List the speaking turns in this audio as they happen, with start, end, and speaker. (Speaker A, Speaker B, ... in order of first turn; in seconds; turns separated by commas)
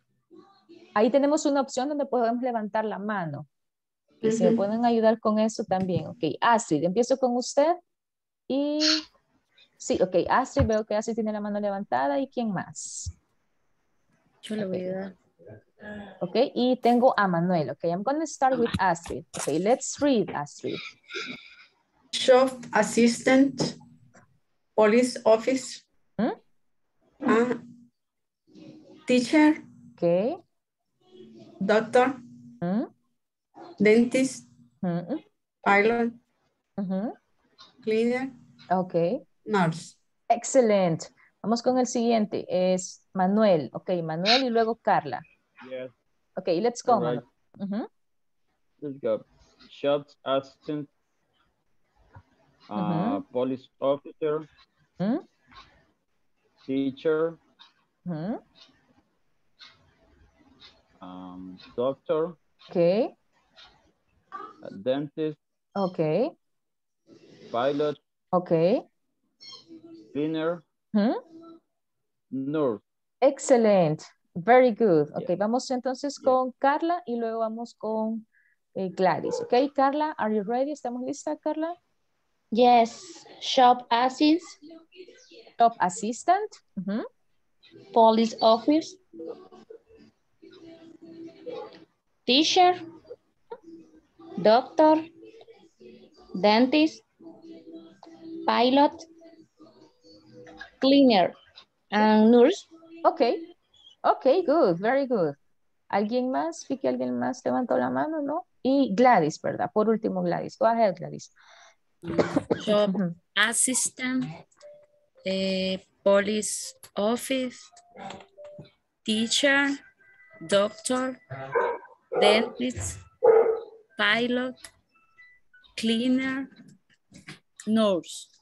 Speaker A: 0.9-3.5, Speaker A: 4.2-7.8, Speaker A: 8.5-9.0, Speaker A: 9.8-13.1, Speaker B: 14.4-15.1, Speaker A: 14.6-14.9, Speaker A: 16.2-20.8, Speaker C: 22.1-23.8, Speaker C: 24.8-25.8, Speaker C: 27.3-27.6, Speaker C: 29.1-29.6, Speaker A: 30.0-30.4, Speaker C: 31.6-32.2, Speaker A: 32.6-32.9, Speaker C: 33.8-34.5, Speaker A: 34.8-35.2, Speaker C: 35.6-36.2, Speaker A: 36.8-37.1, Speaker C: 37.8-38.3, Speaker A: 38.7-39.2, Speaker C: 39.5-39.9, Speaker A: 40.3-45.2, Speaker D: 45.6-45.9, Speaker A: 46.4-47.9, Speaker D: 46.8-47.2, Speaker D: 48.8-50.9, Speaker D: 52.7-54.5, Speaker A: 52.8-53.2, Speaker D: 56.6-57.4, Speaker A: 58.0-58.4, Speaker D: 61.0-62.4, Speaker A: 62.7-63.1, Speaker D: 64.6-65.4, Speaker A: 65.8-66.3, Speaker D: 67.5-68.0, Speaker A: 68.3-68.8, Speaker D: 70.1-70.6, Speaker D: 72.3-72.8, Speaker A: 73.2-78.2, Speaker A: 78.8-81.8, Speaker E: 82.5-84.5, Speaker A: 85.6-87.0, Speaker E: 87.9-89.0, Speaker E: 92.3-92.8, Speaker E: 94.4-95.1, Speaker E: 96.4-97.0, Speaker E: 98.5-99.1, Speaker E: 100.8-101.3, Speaker E: 101.9-102.6, Speaker A: 103.0-103.4, Speaker A: 104.0-105.3, Speaker A: 105.9-111.3, Speaker B: 112.0-114.3, Speaker A: 112.8-113.1, Speaker B: 115.2-117.7, Speaker B: 119.0-119.8, Speaker B: 120.4-121.2, Speaker B: 122.2-123.0, Speaker B: 124.0-124.6, Speaker B: 125.8-126.5, Speaker B: 127.7-128.3